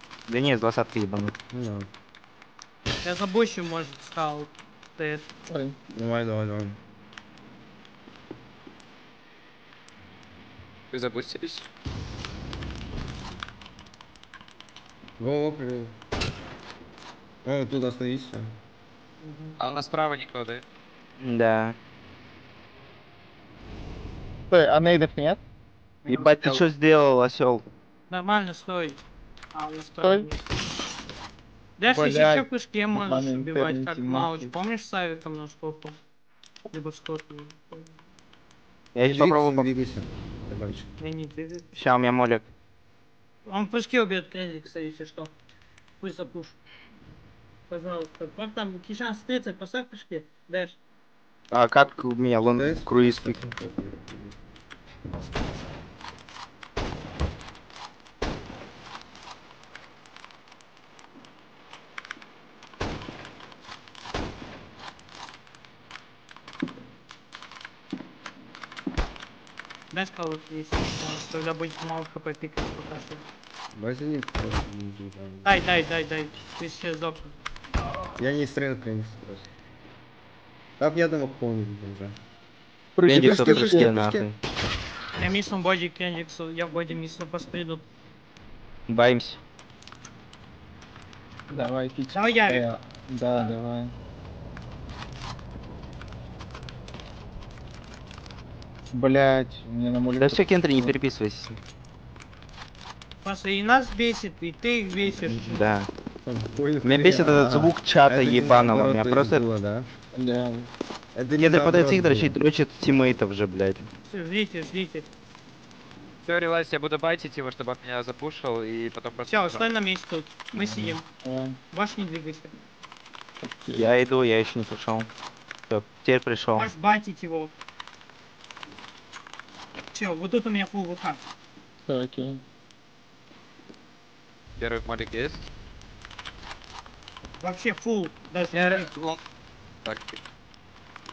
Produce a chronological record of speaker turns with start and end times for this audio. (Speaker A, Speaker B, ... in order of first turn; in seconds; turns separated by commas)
Speaker A: 0.3-1.3, Speaker B: 1.5-1.9, Speaker C: 3.0-5.3, Speaker D: 5.5-5.8, Speaker B: 5.9-6.8, Speaker E: 10.9-11.6, Speaker B: 15.2-15.9, Speaker B: 17.4-18.5, Speaker C: 19.2-19.6, Speaker E: 19.6-20.6, Speaker A: 21.2-21.7, Speaker D: 24.5-25.4, Speaker A: 26.1-27.6, Speaker E: 26.1-26.6, Speaker C: 28.1-29.0, Speaker C: 29.5-30.4, Speaker D: 30.0-30.3, Speaker C: 31.8-36.0, Speaker D: 31.9-34.5, Speaker C: 36.7-37.9, Speaker A: 38.9-39.7, Speaker B: 39.0-40.9, Speaker C: 41.0-41.7, Speaker A: 41.8-42.5, Speaker C: 43.5-45.3, Speaker C: 46.0-46.5, Speaker C: 47.7-50.8, Speaker A: 51.5-53.4, Speaker B: 52.5-54.3, Speaker C: 69.9-73.2, Speaker B: 73.7-75.6, Speaker C: 75.4-77.3, Speaker B: 78.2-79.5, Speaker B: 80.8-82.2, Speaker D: 82.9-83.9, Speaker A: 83.0-84.3, Speaker B: 83.1-84.3, Speaker C: 85.2-87.8, Speaker A: 88.9-89.4, Speaker D: 91.5-93.9, Speaker C: 92.1-92.6, Speaker D: 98.9-100.9, Speaker A: 100.2-101.6, Speaker C: 103.2-105.6, Speaker A: 105.3-105.9, Speaker B: 106.2-109.9, Speaker A: 106.8-109.4, Speaker D: 110.1-110.7, Speaker B: 111.1-112.3, Speaker A: 111.4-113.9, Speaker C: 114.1-115.1, Speaker E: 116.2-119.6, Speaker C: 119.3-121.0, Speaker D: 120.5-121.6, Speaker C: 121.7-122.5, Speaker D: 123.4-123.9, Speaker A: 123.8-125.1, Speaker A: 125.7-126.7, Speaker C: 126.5-127.5, Speaker C: 129.9-131.2, Speaker D: 131.9-132.4, Speaker E: 134.6-135.4, Speaker C: 137.4-138.9, Speaker E: 138.5-139.2, Speaker E: 139.8-140.2